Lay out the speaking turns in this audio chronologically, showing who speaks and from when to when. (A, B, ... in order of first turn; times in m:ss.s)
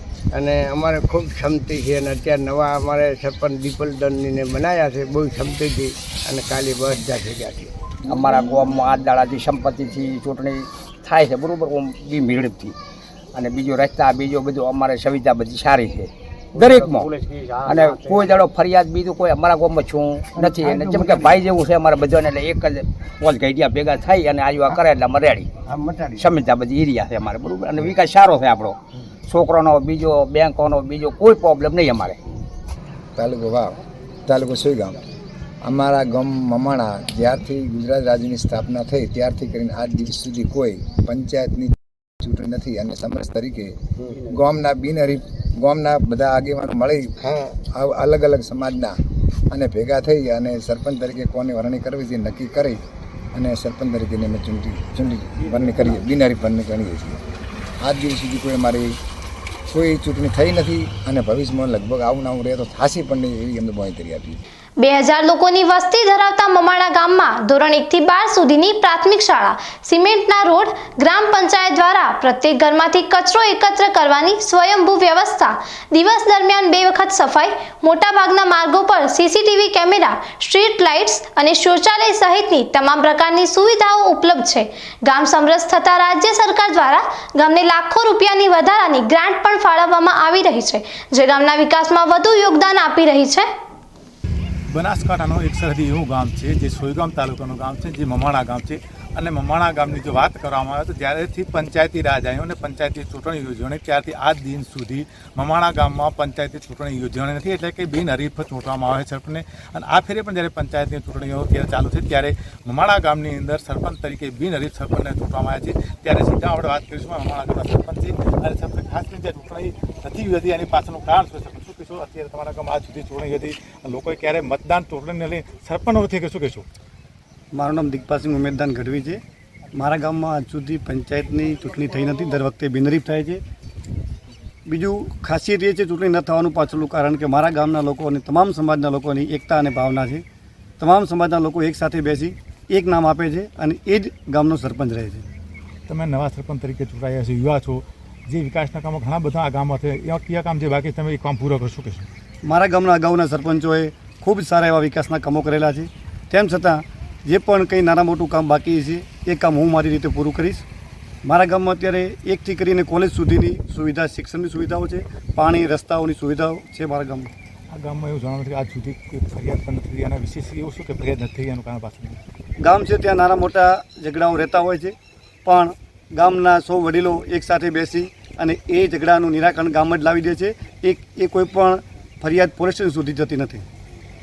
0:00.3-0:07.7 A
0:08.1-0:12.7 B
0:13.3-0:25.5 B
0:16.7-0:17.4 A
0:20.3-0:21.5 A
0:25.7-0:26.3 A
0:26.2-0:28.8 B
0:29.3-0:32.2 B
0:33.2-0:35.0 C
0:35.6-0:43.7 C
0:44.3-0:47.2 C
0:47.7-0:48.9 C
0:49.5-0:52.8 C
0:53.3-0:57.2 C
0:57.8-0:58.9 C
0:59.7-1:04.4 C
1:04.8-1:33.5 D
1:34.7-2:06.6 E
2:07.5-2:09.2 F
2:09.7-2:13.4 F
2:14.7-2:20.2 F
2:20.8-2:25.2 F
2:25.9-2:32.1 E
2:32.4-2:40.6 F
2:41.2-2:47.3 F
2:47.7-2:52.2 E
2:52.6-3:03.6 F